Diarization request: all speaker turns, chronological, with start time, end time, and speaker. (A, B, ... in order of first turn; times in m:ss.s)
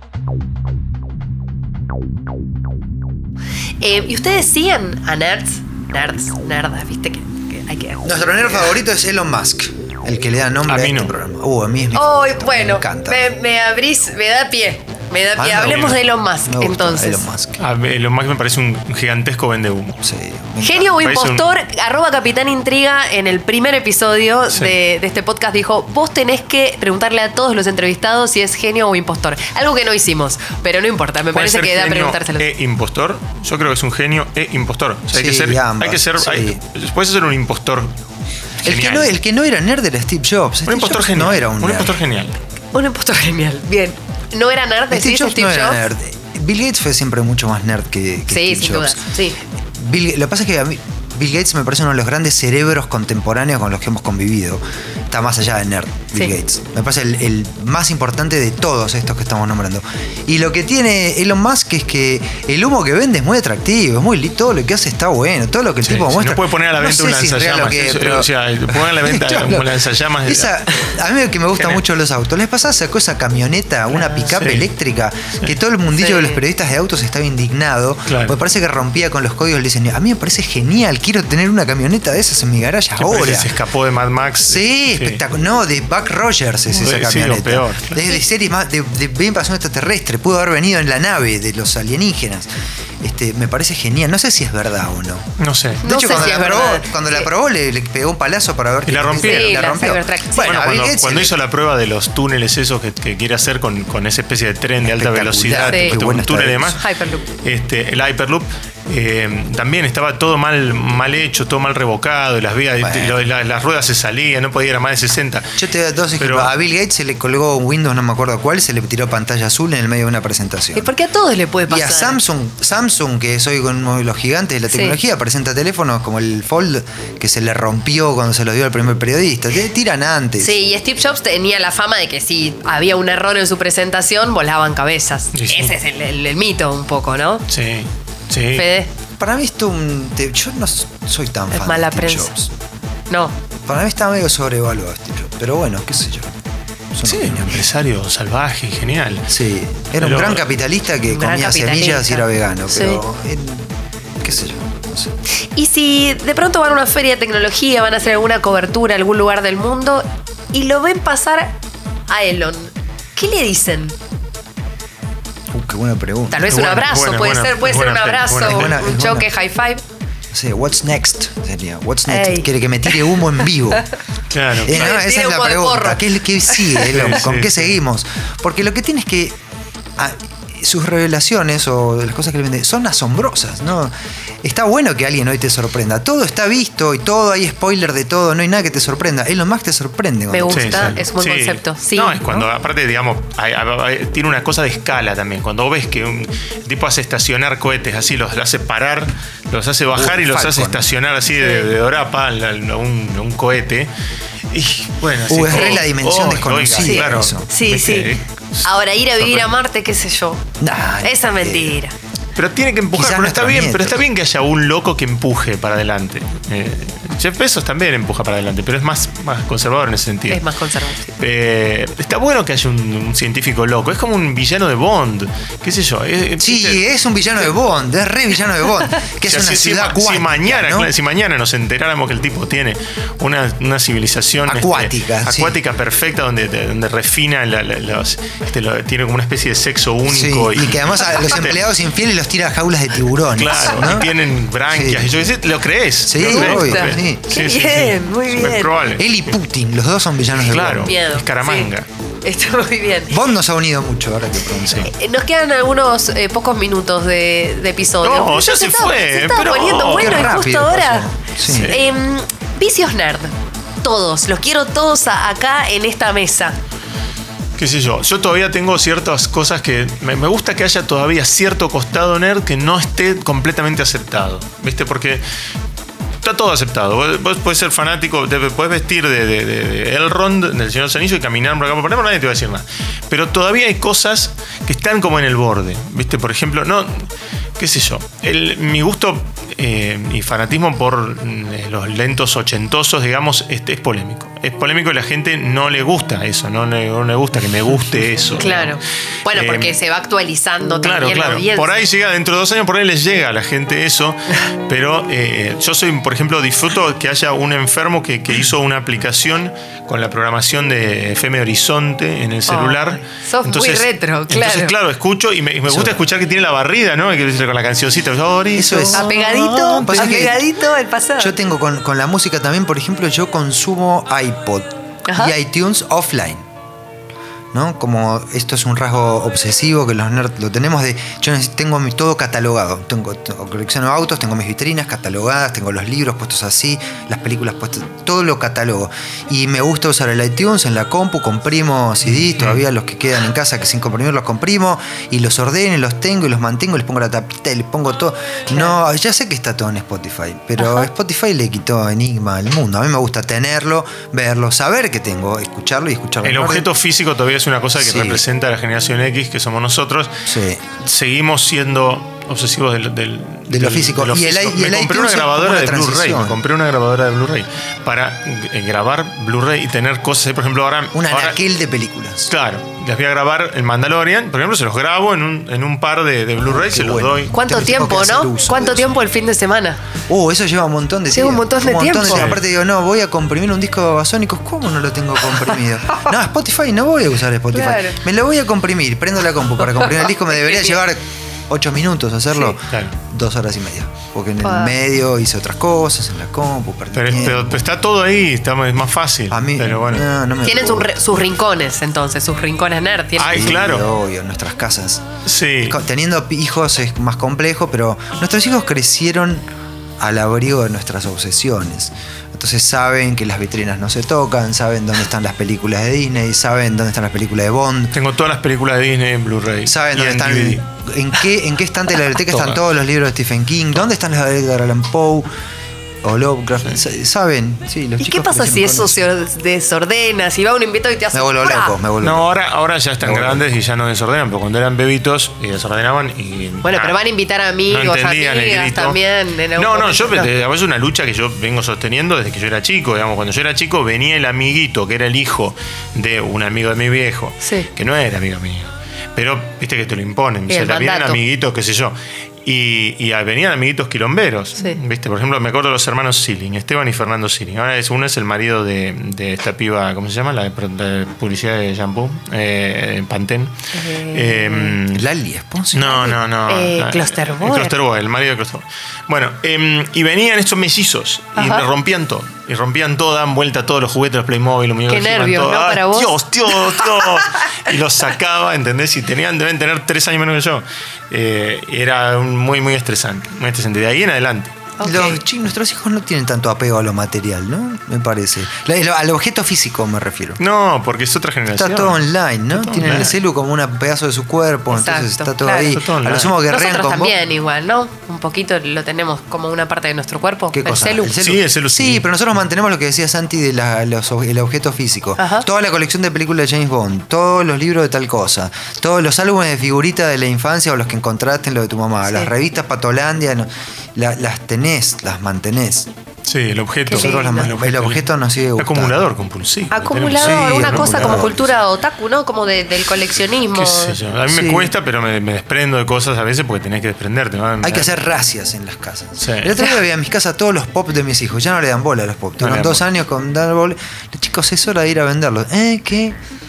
0:03.8-0:08.8 A
0:08.0-0:13.3 B
0:10.6-0:11.1 C
0:11.9-0:17.2 A
0:15.4-0:17.6 B
0:15.6-0:16.0 C
0:17.6-0:20.0 C
0:20.0-0:21.0 B
0:20.6-0:32.5 A
0:21.0-0:21.5 C
0:24.5-0:24.8 C
0:31.3-0:37.9 C
0:35.1-0:36.6 B
0:38.6-0:39.1 C
0:38.6-0:42.0 B
0:40.7-0:42.4 C
0:42.7-0:45.8 A
0:44.9-0:49.0 B
0:48.3-0:49.4 A
0:49.7-1:23.5 B
1:05.8-1:11.0 C
1:11.6-1:11.8 C
1:13.9-1:14.2 A
1:14.3-1:14.7 C
1:16.0-1:16.4 A
1:18.1-1:18.4 C
1:23.0-1:25.2 C
1:24.4-1:32.5 B
1:26.7-1:28.0 C
1:33.0-1:35.3 B
1:35.4-1:35.8 C
1:35.8-1:37.3 A
1:35.8-1:41.4 B
1:38.8-1:39.6 C
1:39.2-1:40.6 A
1:40.4-1:46.8 C
1:44.8-1:46.8 B
1:45.6-1:46.0 A
1:46.8-1:47.2 A
1:47.3-1:55.5 C
1:52.8-1:53.2 B
1:55.6-2:00.9 B
1:56.2-1:56.5 C
2:00.7-2:02.2 A
2:01.7-2:10.6 B
2:04.7-2:05.0 A
2:10.4-2:17.4 A
2:15.3-2:15.8 C
2:17.5-2:18.6 C
2:18.5-2:18.9 A
2:19.2-2:22.5 B
2:21.5-2:22.3 A
2:23.1-2:23.3 A
2:23.5-2:26.4 B
2:26.9-2:27.7 B
2:27.0-2:29.3 C
2:29.3-2:35.1 B
2:30.0-2:30.5 C
2:31.1-2:33.0 A
2:35.5-2:41.6 A
2:42.1-2:43.9 A
2:45.5-2:46.6 B
2:46.3-2:49.8 A
2:46.5-2:48.8 C
2:48.4-2:49.3 B
2:50.3-2:53.9 B
2:52.1-2:53.0 A
2:54.3-2:54.8 C
2:54.6-2:59.4 B
2:54.7-2:56.9 A
2:56.9-2:57.8 C
3:00.0-3:11.0 B
3:10.3-3:12.4 A
3:10.5-3:23.9 C
3:19.9-3:20.8 B
3:21.4-3:21.7 A
3:24.5-3:28.7 C
3:25.2-3:27.5 B
3:25.5-3:25.8 A
3:26.8-3:28.1 A
3:28.6-3:30.4 A
3:29.2-3:29.5 C
3:30.6-3:31.8 B
3:31.0-3:31.9 A
3:32.3-3:40.4 C
3:32.9-3:34.0 B
3:40.3-3:41.1 A
3:41.2-3:46.8 C
3:46.4-3:50.9 B
3:49.2-4:01.6 C
3:54.5-3:55.6 B
4:00.1-4:04.1 B
4:03.3-4:09.3 C
4:04.7-4:05.2 B
4:06.0-4:07.3 B
4:06.2-4:08.7 A
4:08.9-4:10.9 B
4:10.4-4:11.8 C
4:10.8-4:11.7 A
4:12.2-4:13.1 A
4:13.1-4:14.9 B
4:14.8-4:21.1 A
4:18.0-4:20.3 C
4:19.8-4:21.8 B
4:21.4-4:21.8 C
4:21.6-4:26.6 A
4:27.6-4:35.2 C
4:36.2-4:59.7 C
4:58.4-5:01.8 A
5:00.8-5:20.1 C
5:12.5-5:14.7 A
5:15.7-5:16.0 B
5:18.5-5:19.1 B
5:18.9-5:21.4 A
5:19.8-5:20.4 B
5:21.2-5:26.4 B
5:25.0-5:25.3 A
5:27.5-5:56.7 B
5:42.1-5:42.6 C
5:56.2-6:00.3 C
5:57.8-5:58.2 B
6:00.2-6:00.6 B
6:00.8-6:11.4 C
6:03.5-6:06.4 B
6:10.9-6:12.3 B
6:12.3-6:17.3 C
6:16.4-6:19.0 B
6:17.3-6:19.8 A
6:20.1-6:37.6 B
6:21.1-6:22.3 A
6:22.0-6:22.4 C
6:27.5-6:28.0 A
6:30.3-6:30.8 A
6:34.4-6:34.7 A
6:36.9-6:40.1 C
6:39.3-6:41.3 B
6:40.4-6:43.5 A
6:43.2-6:43.9 C
6:43.3-6:45.0 B
6:45.2-6:45.8 C
6:45.6-6:49.4 B
6:50.0-6:57.9 B
6:57.9-7:00.6 C
6:59.6-7:05.3 B
7:02.3-7:02.6 C
7:06.0-7:09.0 B
7:08.0-7:11.7 A
7:11.1-7:12.3 B
7:12.0-7:17.0 C
7:13.0-7:13.4 B
7:16.6-7:20.3 A
7:17.7-7:19.0 C
7:19.6-7:45.0 C
7:30.5-7:31.2 A
7:43.7-7:44.7 A
7:44.9-7:46.1 B
7:45.7-8:04.5 C
7:45.9-7:47.7 A
7:51.4-7:51.7 A
7:54.9-7:56.2 A
7:57.0-7:57.5 A
8:04.8-8:05.2 A
8:04.8-8:10.4 B
8:10.4-8:13.2 C
8:11.5-8:17.2 B
8:14.7-8:15.8 A
8:15.7-8:16.4 C
8:16.5-8:21.1 A
8:20.5-8:35.9 B
8:20.6-8:22.1 C
8:25.2-8:25.4 A
8:36.2-8:41.4 C
8:36.9-8:37.5 A
8:36.9-8:39.0 B
8:39.7-8:44.0 A
8:40.2-8:41.5 B
8:43.5-8:48.0 C
8:44.3-8:44.7 B
8:47.6-8:56.2 B
8:49.2-8:49.6 C
8:52.4-8:52.8 C